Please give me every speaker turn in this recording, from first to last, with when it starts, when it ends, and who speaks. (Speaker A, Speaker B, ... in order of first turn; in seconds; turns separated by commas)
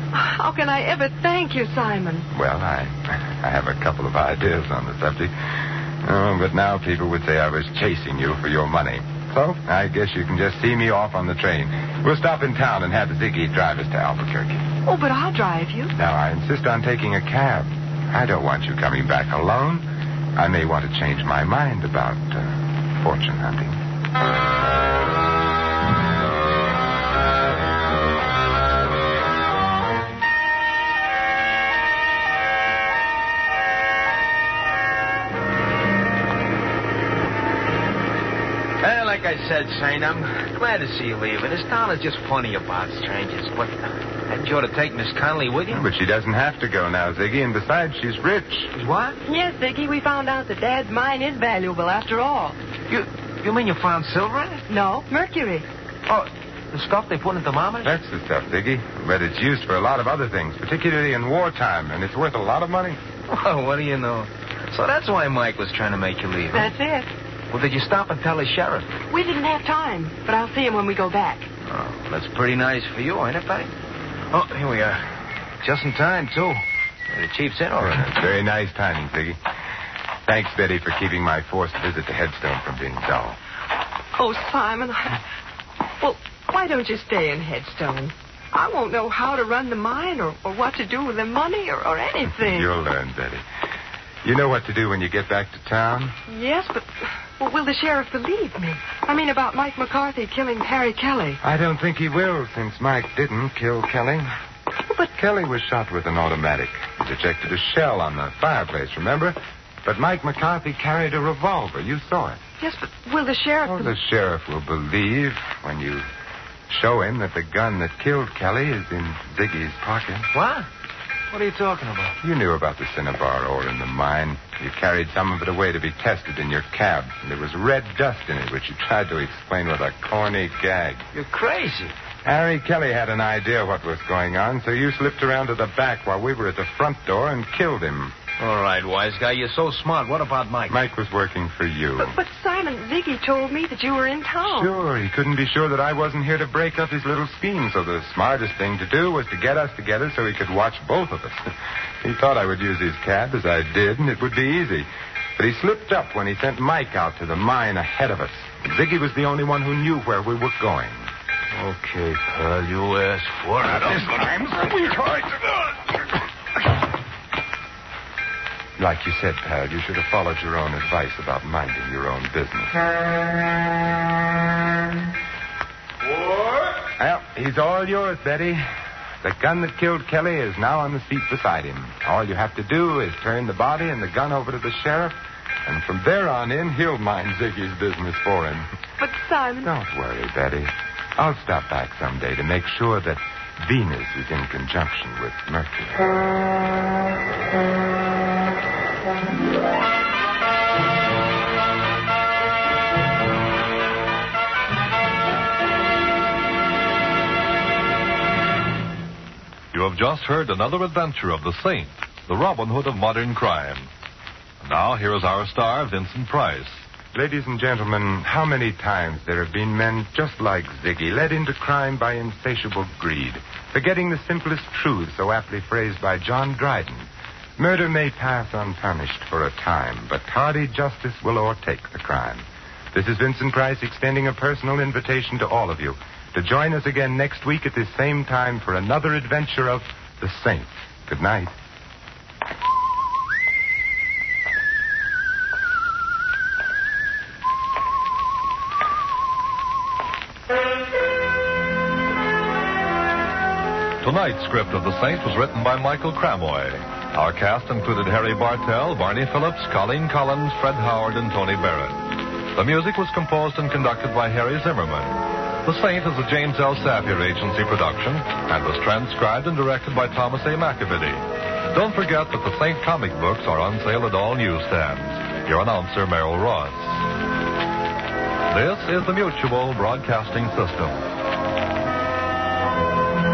Speaker A: 0.1-2.3, Speaker B: 2.3-14.7, Speaker A: 14.8-15.9, Speaker B: 15.9-19.8, Speaker B: 20.4-23.8, Speaker C: 38.8-45.9, Speaker B: 45.7-48.7, Speaker C: 48.7-49.2, Speaker A: 49.2-52.6, Speaker C: 52.9-54.6, Speaker A: 54.7-55.6, Speaker C: 56.1-57.9, Speaker B: 57.8-63.0, Speaker C: 63.3-66.7, Speaker A: 66.5-67.1, Speaker C: 67.5-69.0, Speaker A: 69.1-71.5, Speaker C: 71.7-73.7, Speaker C: 74.3-75.1, Speaker C: 75.6-78.1, Speaker B: 77.8-79.4, Speaker B: 80.2-83.4, Speaker A: 84.1-85.2, Speaker A: 86.0-92.7, Speaker B: 92.3-93.4, Speaker B: 94.2-96.2, Speaker A: 96.3-101.4, Speaker B: 101.4-104.3, Speaker B: 105.1-112.4, Speaker A: 112.6-114.0, Speaker B: 113.7-116.1, Speaker B: 116.7-120.3, Speaker C: 120.3-120.7, Speaker C: 121.3-122.2, Speaker B: 122.2-131.1, Speaker C: 131.1-131.9, Speaker B: 132.2-138.1, Speaker C: 138.4-140.8, Speaker B: 140.7-142.2, Speaker A: 142.0-144.7, Speaker B: 144.4-161.1, Speaker C: 161.5-164.3, Speaker B: 163.6-165.5, Speaker B: 168.8-172.8, Speaker C: 176.0-176.8, Speaker B: 177.0-178.7, Speaker B: 179.2-188.7, Speaker A: 189.0-189.7, Speaker B: 189.6-196.0, Speaker D: 209.7-213.9, Speaker D: 214.6-216.8, Speaker B: 217.1-241.5, Speaker D: 254.0-262.0, Speaker D: 262.5-277.1, Speaker D: 278.5-281.0